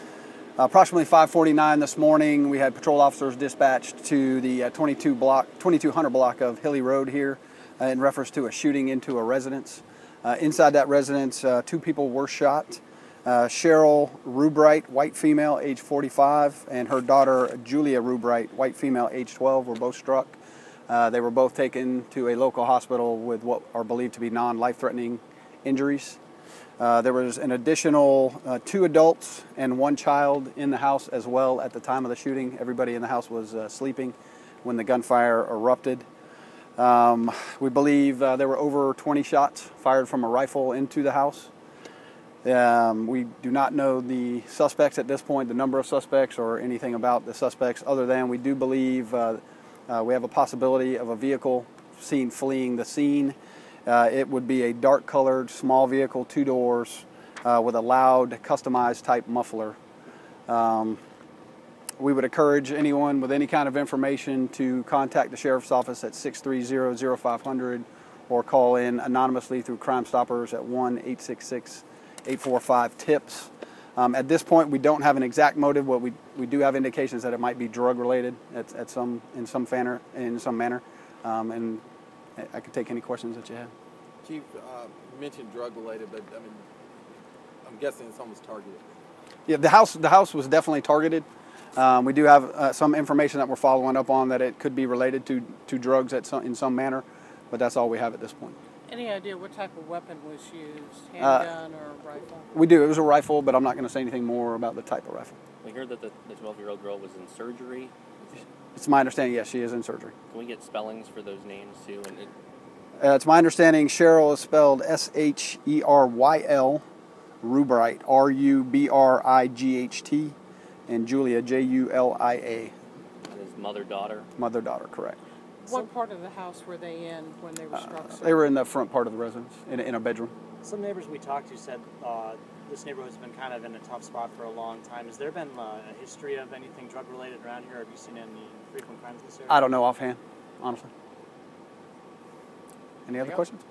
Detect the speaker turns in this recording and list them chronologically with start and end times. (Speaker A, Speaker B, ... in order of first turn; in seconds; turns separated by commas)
Speaker A: 0.6-20.4, Speaker A: 20.9-26.2, Speaker A: 26.8-36.0, Speaker A: 36.8-41.5, Speaker A: 42.4-59.8, Speaker A: 60.5-61.0, Speaker A: 62.0-81.8, Speaker A: 82.4-83.7, Speaker B: 84.2-86.7, Speaker B: 87.6-88.9, Speaker A: 89.5-98.5, Speaker C: 98.9-102.5, Speaker A: 101.2-101.5, Speaker A: 102.5-105.4, Speaker D: 105.6-108.4, Speaker A: 108.7-110.1, Speaker D: 110.3-112.3, Speaker A: 113.0-116.8, Speaker A: 117.4-120.3, Speaker A: 120.9-122.7, Speaker D: 123.3-124.3, Speaker A: 124.4-125.2, Speaker C: 125.6-128.3, Speaker A: 127.7-130.3, Speaker E: 130.6-139.6, Speaker A: 139.5-140.9, Speaker A: 143.1-143.6